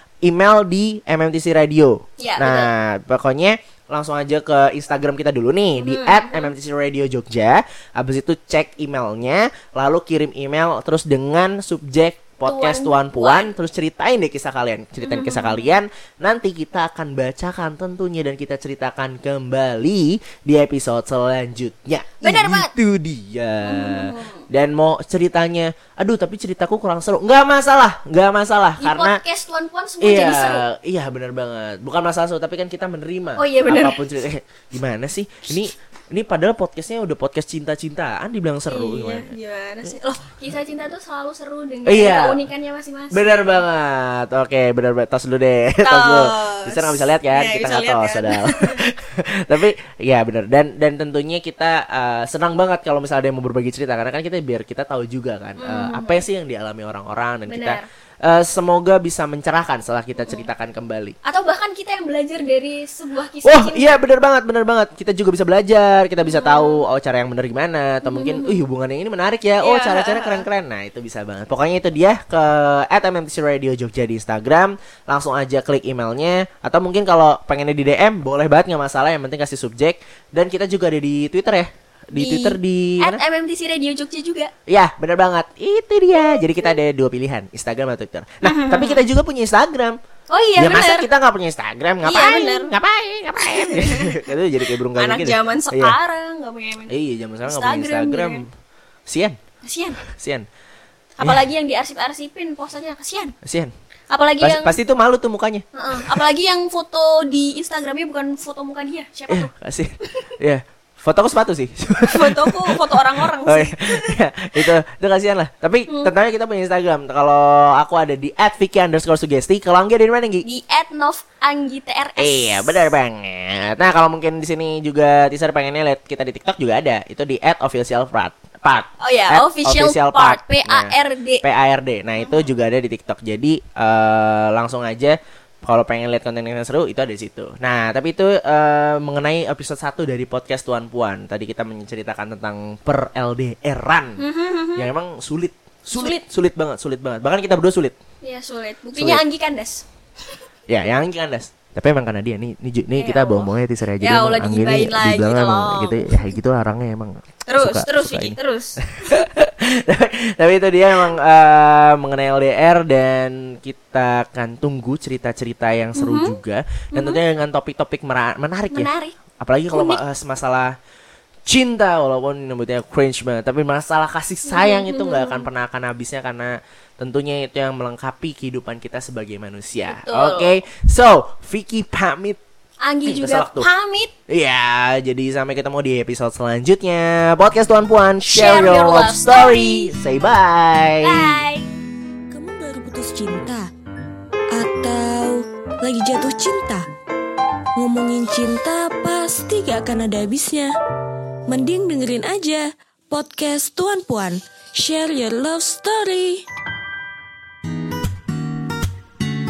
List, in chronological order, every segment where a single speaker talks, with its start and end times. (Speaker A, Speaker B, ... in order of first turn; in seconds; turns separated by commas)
Speaker A: 0.2-29.2, Speaker B: 2.2-2.7, Speaker B: 5.8-6.5, Speaker B: 12.4-13.5, Speaker B: 15.0-15.7, Speaker B: 22.2-22.7, Speaker B: 23.6-24.4, Speaker B: 28.8-30.6, Speaker A: 30.0-39.3, Speaker B: 33.4-34.0, Speaker B: 38.7-43.6, Speaker A: 41.9-42.4, Speaker A: 43.1-61.2, Speaker B: 45.8-48.8, Speaker B: 55.6-56.2, Speaker B: 57.5-57.9, Speaker B: 61.2-64.0, Speaker A: 63.4-83.2, Speaker B: 66.2-66.8, Speaker B: 68.0-68.6, Speaker B: 69.6-70.4, Speaker B: 82.2-84.5, Speaker A: 84.7-90.0, Speaker B: 86.1-86.7, Speaker B: 88.4-89.0, Speaker B: 90.3-91.1, Speaker A: 90.6-96.0, Speaker B: 92.0-92.7, Speaker B: 93.5-94.2, Speaker B: 95.0-96.9, Speaker A: 96.9-98.5, Speaker B: 97.5-98.5, Speaker A: 99.1-99.4, Speaker B: 99.6-100.0, Speaker A: 100.0-100.5, Speaker B: 101.2-103.3, Speaker A: 103.4-103.7, Speaker B: 104.1-104.7, Speaker A: 104.4-106.2, Speaker B: 105.7-109.5, Speaker A: 109.3-120.4, Speaker B: 112.1-114.7, Speaker B: 120.4-122.9, Speaker A: 122.2-144.2, Speaker B: 129.0-131.4, Speaker B: 132.2-132.5, Speaker B: 144.2-144.9, Speaker A: 144.8-147.9, Speaker B: 145.9-146.2, Speaker B: 148.2-150.4, Speaker A: 148.9-149.2, Speaker A: 150.7-170.7, Speaker B: 152.9-156.3, Speaker B: 157.5-159.2, Speaker B: 165.9-166.4, Speaker B: 166.9-167.2, Speaker B: 168.7-169.1, Speaker B: 169.7-170.0, Speaker A: 171.4-182.4, Speaker B: 174.5-175.5, Speaker B: 179.9-180.5, Speaker B: 182.8-184.1, Speaker A: 183.1-183.7, Speaker A: 184.3-191.4, Speaker B: 188.3-189.9, Speaker B: 191.0-191.7, Speaker C: 192.3-193.7, Speaker C: 194.5-196.9, Speaker C: 197.8-200.7, Speaker C: 201.5-206.4